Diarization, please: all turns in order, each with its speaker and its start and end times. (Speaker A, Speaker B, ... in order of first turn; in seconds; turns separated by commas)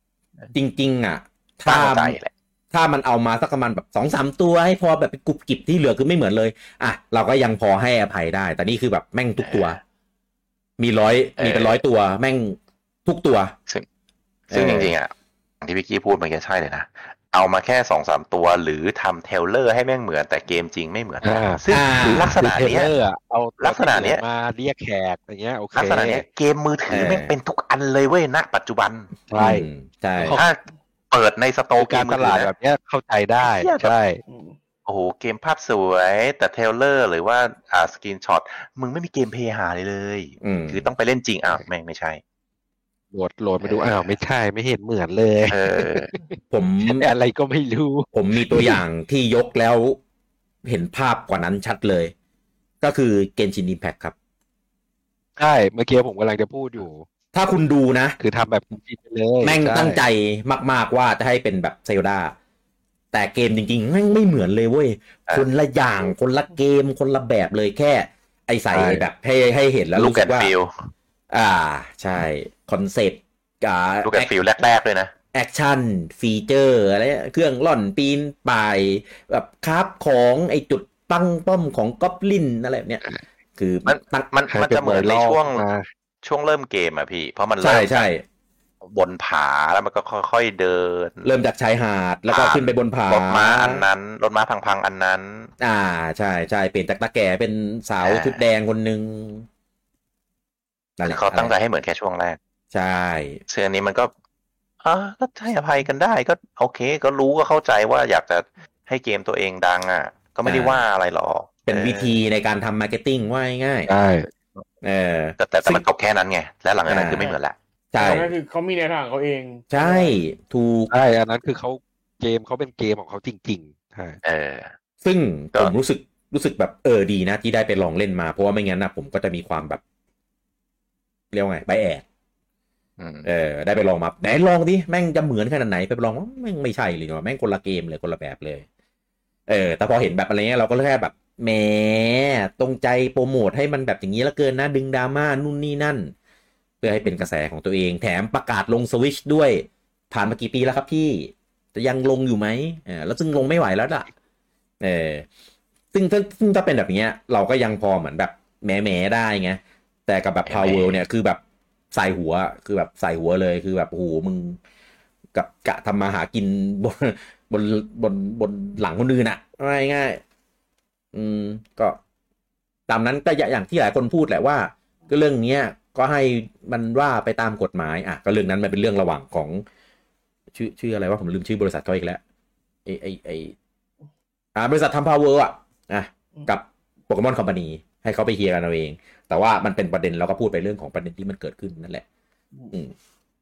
Speaker A: 0.5-2.2, Speaker B: 1.6-2.3, Speaker A: 2.7-9.8, Speaker B: 9.4-9.8, Speaker A: 10.8-13.5, Speaker B: 11.4-11.8, Speaker B: 14.5-15.1, Speaker A: 14.5-14.9, Speaker B: 15.6-22.9, Speaker C: 21.2-26.2, Speaker A: 21.7-22.4, Speaker B: 23.6-24.2, Speaker B: 25.7-29.2, Speaker A: 26.9-27.3, Speaker C: 29.3-29.7, Speaker A: 29.3-30.4, Speaker C: 30.2-30.5, Speaker B: 30.3-30.6, Speaker B: 31.1-32.5, Speaker C: 31.8-34.2, Speaker B: 33.4-33.9, Speaker D: 34.3-34.5, Speaker B: 34.9-42.2, Speaker A: 40.4-40.9, Speaker C: 43.1-48.8, Speaker B: 43.6-44.1, Speaker B: 45.5-46.1, Speaker A: 46.5-47.1, Speaker A: 48.1-50.0, Speaker A: 50.6-52.1, Speaker A: 52.8-54.1, Speaker C: 55.4-57.0, Speaker A: 57.3-58.2, Speaker C: 58.2-60.0, Speaker A: 59.4-62.3, Speaker A: 63.1-70.5, Speaker C: 68.7-69.0, Speaker B: 69.9-70.7, Speaker A: 71.3-74.3, Speaker B: 74.0-75.1, Speaker A: 75.3-83.0, Speaker A: 83.6-84.2, Speaker B: 83.9-85.7, Speaker C: 84.5-85.9, Speaker B: 86.2-88.1, Speaker A: 87.6-88.2, Speaker B: 88.8-91.3, Speaker A: 91.2-93.9, Speaker B: 92.3-95.5, Speaker A: 95.6-99.5, Speaker B: 98.0-98.4, Speaker A: 101.0-101.5, Speaker B: 101.0-102.4, Speaker A: 102.7-103.4, Speaker B: 103.5-104.1, Speaker B: 104.8-112.2, Speaker A: 110.4-110.8, Speaker A: 111.7-113.9, Speaker C: 113.9-114.3, Speaker A: 114.8-115.8, Speaker B: 115.4-117.5, Speaker A: 116.9-117.3, Speaker A: 117.9-118.3, Speaker D: 118.0-120.2, Speaker A: 119.7-120.9, Speaker C: 120.9-124.2, Speaker B: 124.2-124.7, Speaker A: 125.0-129.8, Speaker A: 131.3-132.0, Speaker B: 133.0-133.3, Speaker A: 133.2-138.7, Speaker A: 139.5-146.1, Speaker A: 146.8-154.1, Speaker A: 154.8-155.2, Speaker A: 155.9-161.4, Speaker B: 160.4-161.0, Speaker A: 161.9-164.6, Speaker A: 165.3-170.2, Speaker A: 171.1-172.0, Speaker A: 172.9-179.6, Speaker A: 180.5-182.2, Speaker A: 182.8-183.5, Speaker A: 184.5-192.0